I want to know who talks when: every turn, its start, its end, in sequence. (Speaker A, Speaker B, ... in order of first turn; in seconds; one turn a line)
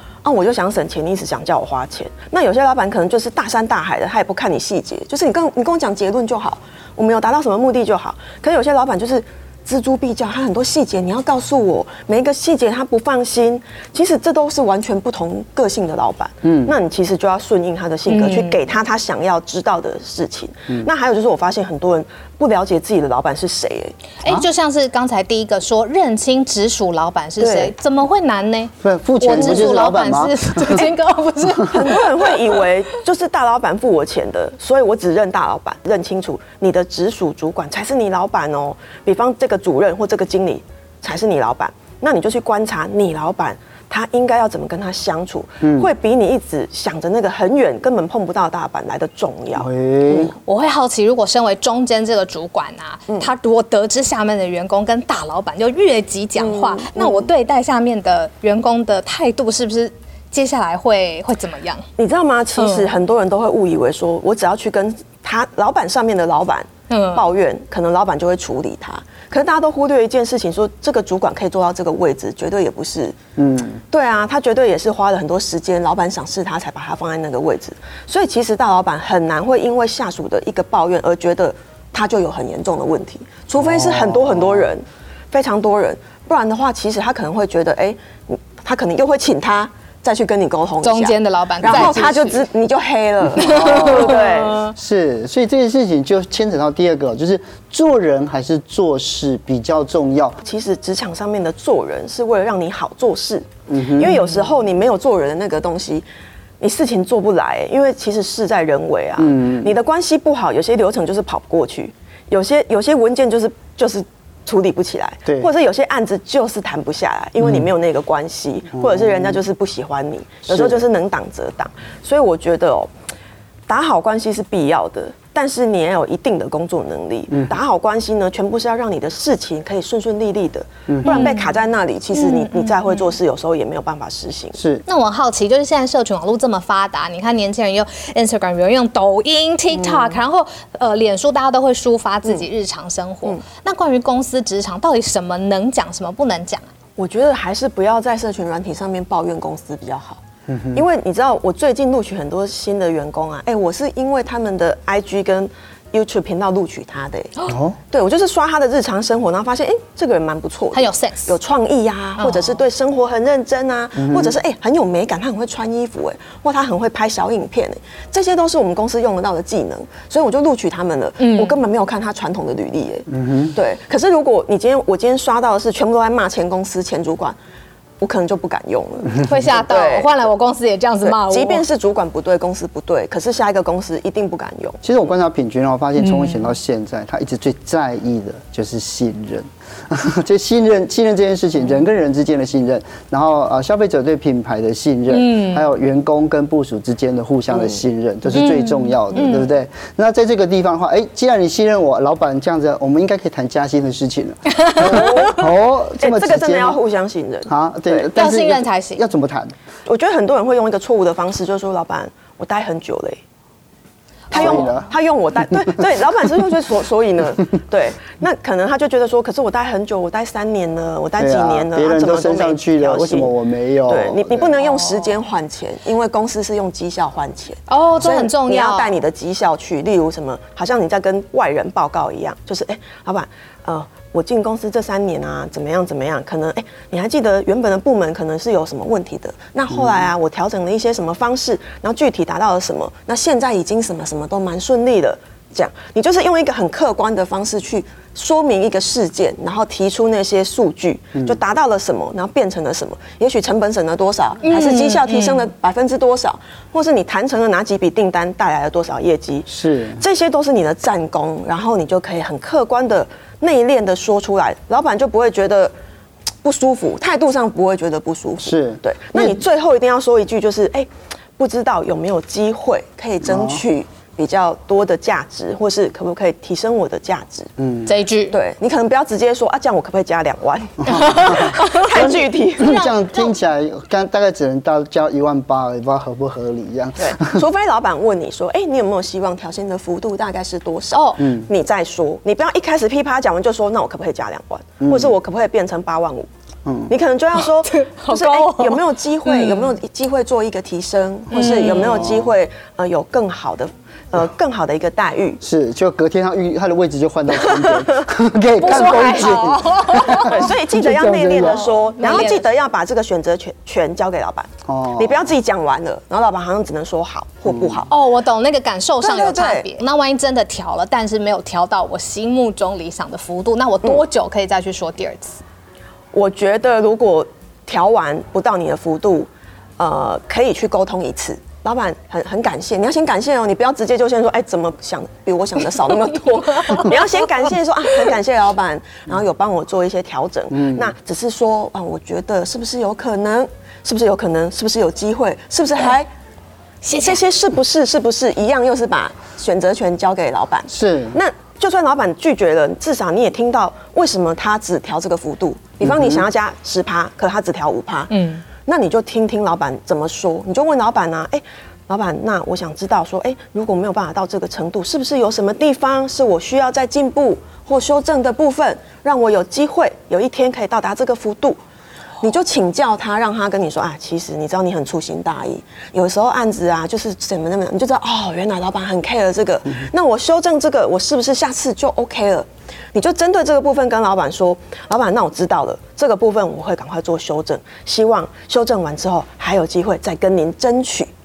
Speaker A: 0.2-24.0
Speaker B: 16.4-16.7
Speaker C: 18.1-18.6
Speaker C: 24.2-32.6
Speaker A: 27.4-27.7
Speaker B: 28.8-30.8
Speaker A: 29.3-29.7
Speaker A: 31.6-50.3
Speaker B: 45.6-45.9
Speaker B: 49.5-50.3
Speaker C: 50.4-61.9
Speaker A: 56.4-57.3
Speaker A: 62.0-73.2
Speaker C: 62.6-62.9
Speaker C: 66.9-67.2
Speaker B: 73.4-73.8
Speaker A: 73.9-94.7
Speaker B: 83.6-84.7
Speaker C: 90.8-92.4
Speaker B: 93.3-100.4
Speaker C: 93.4-94.7
Speaker A: 100.4-106.0
Speaker B: 103.7-104.1
Speaker A: 106.6-122.9
Speaker B: 109.2-109.7
Speaker B: 117.4-117.7
Speaker B: 118.7-119.4
Speaker B: 120.5-120.8
Speaker A: 123.7-134.6
Speaker B: 130.9-131.3
Speaker C: 131.0-131.5
Speaker C: 132.1-133.1
Speaker B: 134.5-134.8
Speaker C: 134.8-146.7
Speaker A: 139.8-140.2
Speaker A: 147.0-150.2
Speaker B: 150.5-150.8
Speaker A: 150.7-177.4
Speaker B: 157.4-157.8
Speaker C: 160.7-161.3
Speaker C: 162.2-162.6
Speaker B: 163.9-164.3
Speaker C: 171.2-171.6
Speaker B: 173.1-173.5
Speaker A: 178.0-180.1
Speaker C: 179.2-181.6
Speaker A: 181.0-184.8
Speaker B: 184.8-206.8
Speaker C: 186.0-186.5
Speaker C: 195.1-195.7
Speaker A: 197.5-197.8
Speaker C: 198.3-199.5
Speaker C: 204.5-205.3
Speaker A: 204.8-205.5
Speaker A: 206.0-208.1
Speaker B: 207.4-209.5
Speaker C: 208.1-209.0
Speaker A: 209.8-213.2
Speaker B: 214.3-214.9
Speaker A: 214.3-223.3
Speaker C: 214.3-214.7
Speaker B: 221.2-224.5
Speaker A: 223.9-265.7
Speaker C: 224.6-225.1
Speaker C: 227.7-229.0
Speaker B: 239.7-240.0
Speaker C: 254.4-255.5
Speaker B: 259.4-260.0
Speaker A: 266.4-277.5
Speaker B: 268.4-269.4
Speaker B: 273.2-273.6
Speaker B: 277.6-277.9
Speaker C: 277.9-278.4
Speaker A: 278.3-282.8
Speaker B: 280.8-287.4
Speaker C: 280.9-283.3
Speaker A: 287.0-296.3
Speaker C: 290.9-291.2
Speaker B: 291.2-291.5
Speaker B: 294.8-295.1
Speaker B: 296.6-296.9
Speaker A: 296.9-305.4
Speaker C: 297.3-299.7
Speaker C: 301.3-302.1
Speaker B: 301.7-302.3
Speaker B: 305.4-311.7
Speaker A: 307.3-308.1
Speaker C: 308.6-310.6
Speaker A: 310.1-317.9
Speaker C: 311.4-312.5
Speaker B: 314.7-315.2
Speaker B: 317.5-317.8
Speaker C: 317.9-325.4
Speaker A: 319.0-319.8
Speaker A: 326.1-346.1
Speaker C: 336.5-337.2
Speaker B: 340.5-340.9
Speaker C: 346.8-347.2
Speaker A: 346.9-371.6
Speaker B: 350.7-351.2
Speaker B: 355.8-356.2
Speaker C: 358.1-358.4
Speaker A: 372.2-391.1